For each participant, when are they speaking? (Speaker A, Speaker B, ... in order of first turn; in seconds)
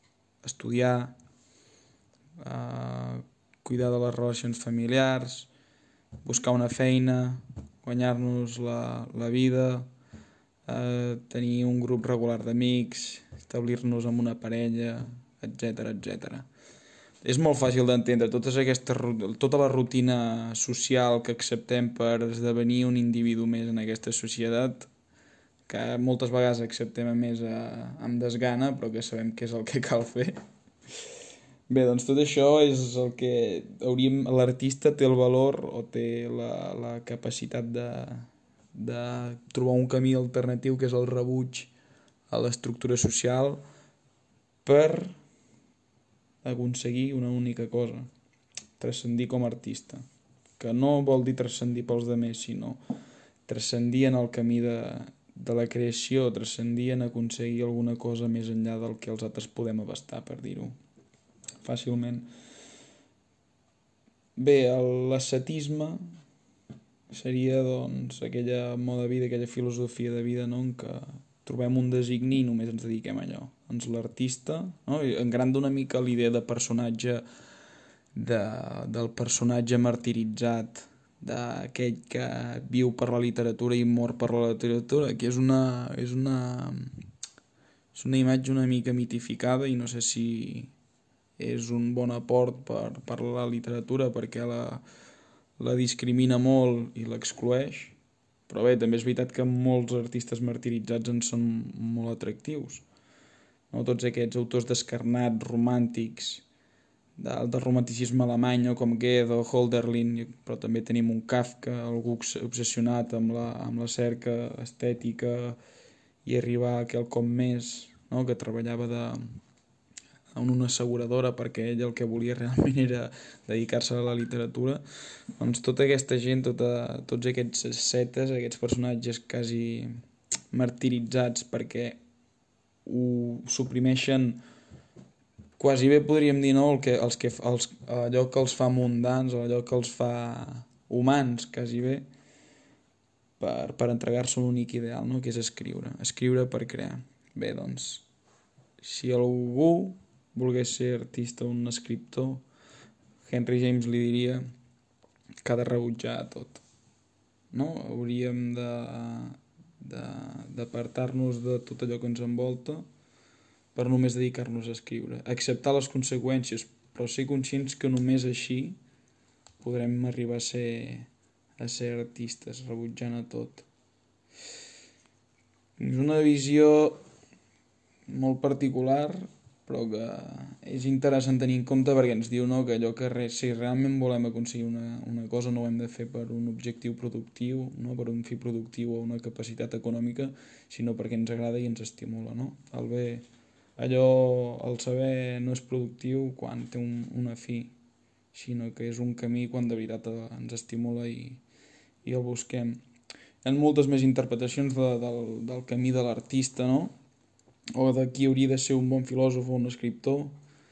Speaker A: 0.4-1.1, 2.4-5.5, 6.2-9.9, 10.7-16.4, 17.2-24.9, 25.7-30.4, 31.7-41.7, 42.3-43.6, 44.6-45.1, 46.4-48.1, 48.8-50.0, 50.6-52.8, 53.4-60.7, 61.6-62.3, 64.3-66.0, 67.1-77.2, 78.1-87.0, 87.9-90.7, 91.4-94.8, 95.6-98.0, 98.5-102.8, 103.7-106.4, 107.2-115.6, 116.2-119.4, 120.3-124.8, 125.3-129.9, 130.5-132.0, 132.8-134.4, 135.6-142.1, 143.4-148.0, 148.8-152.4, 153.2-154.4, 155.4-156.6, 157.5-162.8, 163.7-168.8, 169.6-171.1, 171.6-173.7, 175.8-177.0, 178.1-193.2, 193.8-197.7, 198.3-201.4, 202.0-202.8, 203.4-206.9, 207.8-210.3